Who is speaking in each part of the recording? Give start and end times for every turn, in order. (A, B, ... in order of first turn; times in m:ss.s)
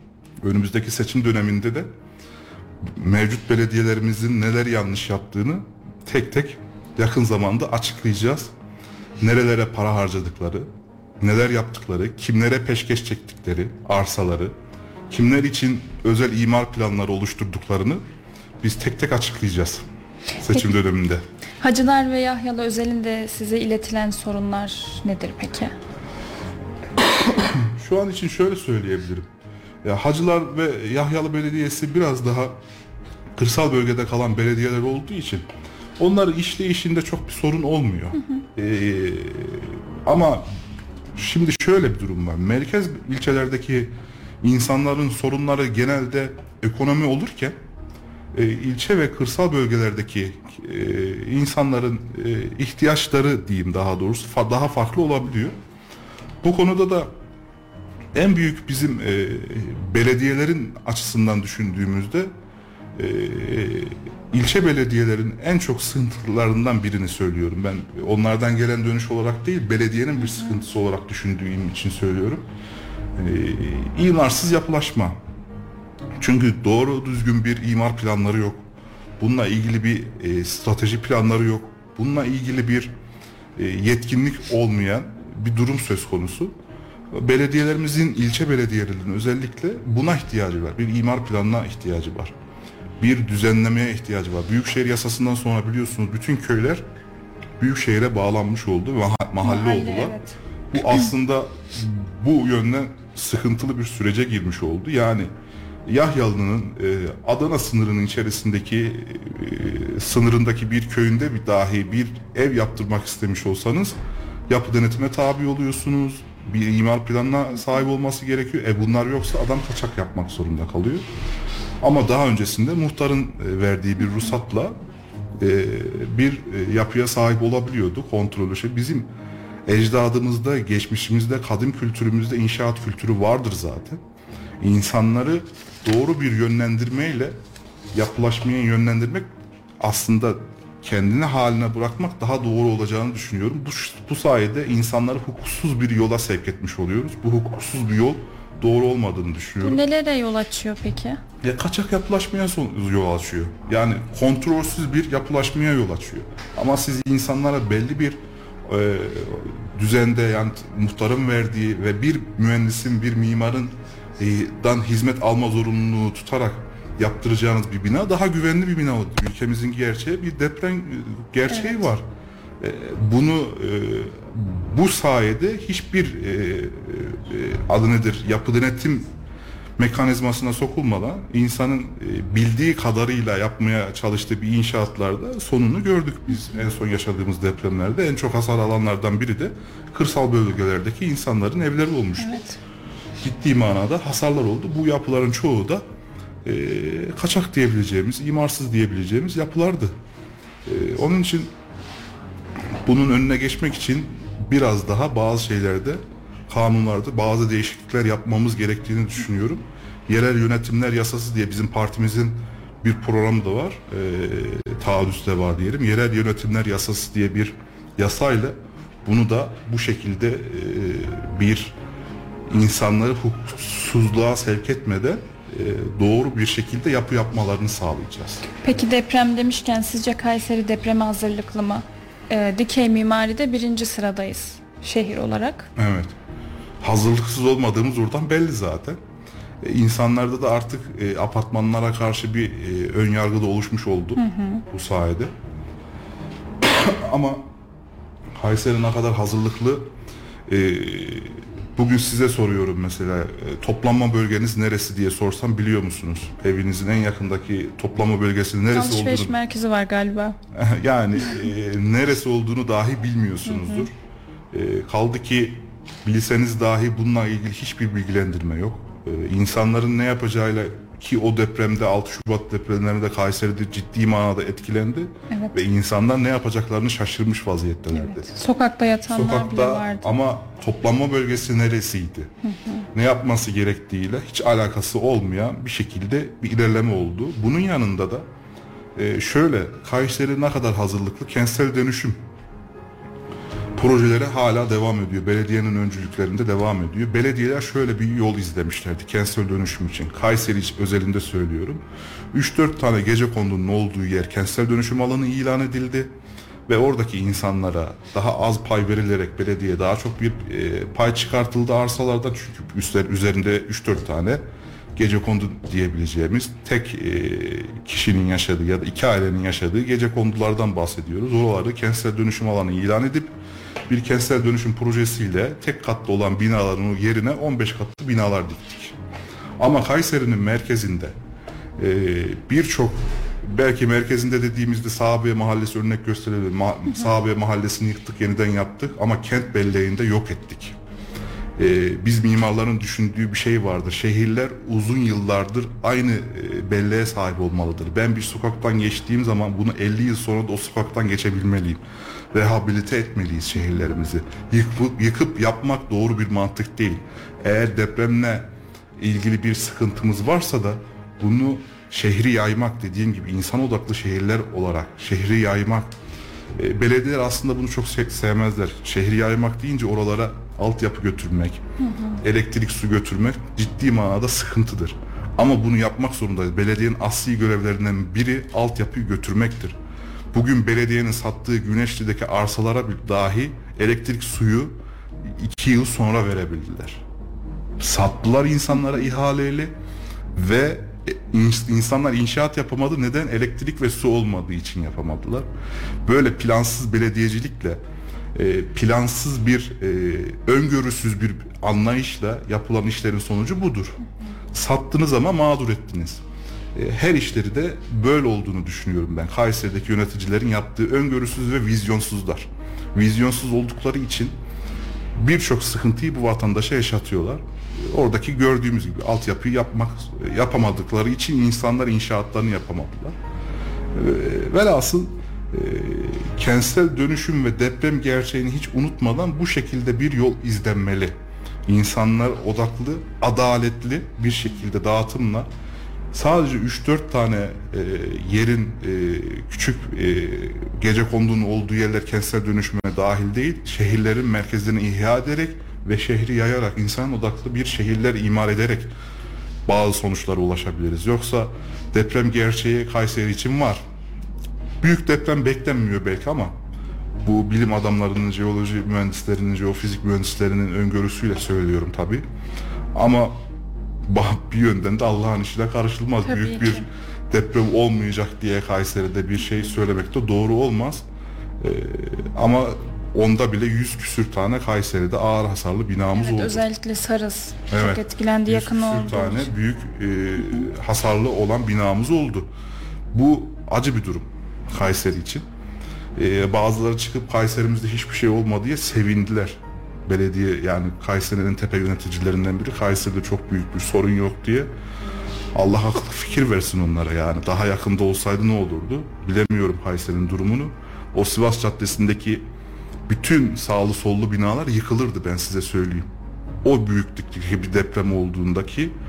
0:00.4-0:01.9 A
0:02.8-0:08.5 A
0:09.2-0:10.7 A
0:11.2-0:14.5 A
0:15.1-0:18.0 A
0:18.6-0:19.8 A
0:20.4-0:21.2 A
0:21.6-0:25.8 B
0:27.0-0:29.3 A
0:29.8-0:32.5 A
0:33.4-0:35.4 A
0:36.0-0:40.4 A
0:41.1-0:47.6 A
0:48.3-0:55.5 A
0:56.4-0:57.1 A
0:58.1-1:02.3 A
1:03.0-1:12.5 A
1:10.3-1:10.6 B
1:13.2-1:15.2 A
1:16.2-1:18.6 A
1:19.2-1:22.9 A
1:23.6-1:26.5 A
1:27.1-1:32.3 A
1:33.0-1:36.8 A
1:37.6-1:40.2 A
1:39.4-1:40.4 B
1:40.7-1:45.3 A
1:45.8-1:53.9 A
1:54.5-2:01.0 A
2:01.8-2:04.8 A
2:05.4-2:09.1 A
2:09.7-2:14.0 A
2:14.6-2:17.4 A
2:17.9-2:19.3 A
2:19.8-2:29.8 A
2:29.6-2:31.2 B
2:31.4-2:52.0 A
2:51.5-2:51.8 B
2:52.6-2:59.1 A
2:59.8-3:12.4 A
3:12.2-3:12.6 B
3:13.2-3:15.8 A
3:16.4-3:19.9 A
3:20.6-3:21.5 A
3:22.8-3:41.8 A
3:42.5-3:48.5 A
3:48.6-3:55.7 B
3:55.8-3:56.1 A
3:56.8-3:59.0 A
3:59.6-4:05.3 A
4:04.2-4:04.6 B
4:06.6-4:07.5 A
4:08.4-4:09.9 A
4:10.5-4:19.4 A
4:18.7-4:20.4 B
4:20.5-4:23.9 A
4:23.5-4:23.9 B
4:24.5-4:38.3 A
4:35.3-4:35.6 B
4:37.9-4:40.1 B
4:39.1-4:42.3 A
4:42.4-4:42.8 B
4:42.9-4:48.3 A
4:49.0-4:52.2 A
4:53.8-5:06.1 A
5:06.7-5:14.4 A
5:15.0-5:23.3 A
5:23.9-5:28.9 A
5:29.6-5:31.1 A
5:31.8-5:40.7 A
5:41.6-5:51.8 A
5:52.3-5:58.5 A
5:59.0-6:05.9 A
6:06.6-6:11.6 A
6:11.8-6:12.2 B
6:12.2-6:19.8 A
6:20.3-6:24.7 A
6:25.2-6:27.0 A
6:27.8-6:29.7 A
6:30.3-6:35.5 A
6:36.0-6:37.8 A
6:38.3-6:44.0 A
6:44.5-6:46.2 A
6:46.7-6:54.3 A
6:55.1-7:03.1 A
7:03.9-7:15.5 A
7:16.1-7:28.9 A
7:29.7-7:33.8 A
7:34.8-7:36.5 A
7:37.2-7:42.2 A
7:42.9-7:43.4 A
7:44.1-7:51.0 A
7:46.2-7:46.8 B
7:51.6-7:56.6 A
7:56.1-7:59.5 B
7:57.7-8:02.5 A
8:03.1-8:05.4 A
8:06.2-8:14.7 A
8:15.5-8:22.4 A
8:23.1-8:26.1 A
8:26.6-8:28.9 A